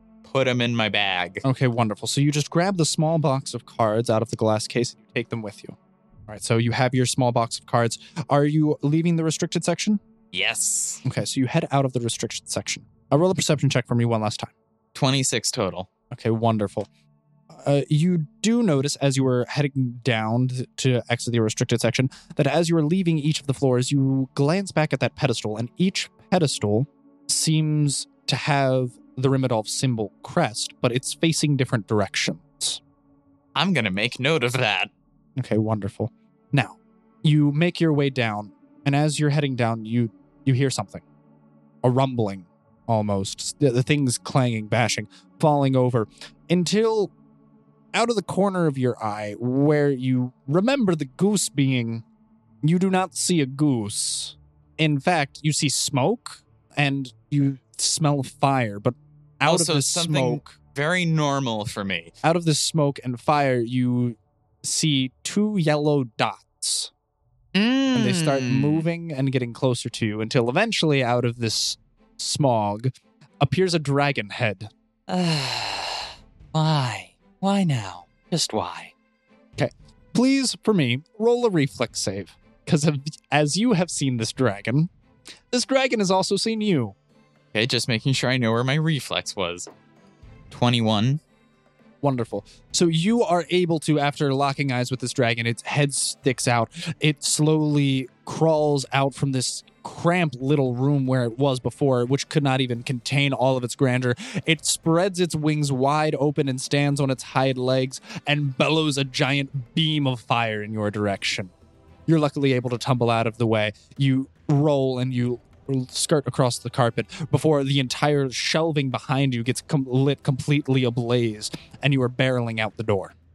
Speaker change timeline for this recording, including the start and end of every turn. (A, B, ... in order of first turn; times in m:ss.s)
0:00.2-0:01.4 A
0:01.4-0:05.8 B
0:06.3-0:10.0 B
0:10.3-0:11.0 A
0:11.0-0:14.5 B
0:15.0-0:15.9 A
0:16.1-0:16.9 B
0:17.5-0:32.8 B
0:33.6-0:34.9 A
0:35.4-0:41.0 B
0:41.8-0:47.1 B
0:47.9-0:52.0 B
0:52.6-1:00.5 B
0:59.4-1:02.1 A
1:02.2-1:06.9 B
1:07.6-1:08.8 A
1:07.9-1:14.7 B
1:15.1-1:18.9 A
1:19.6-1:24.9 B
1:25.5-1:27.0 B
1:27.5-1:29.7 A
1:30.5-1:31.2 A
1:32.0-1:51.5 B
1:52.1-2:03.1 B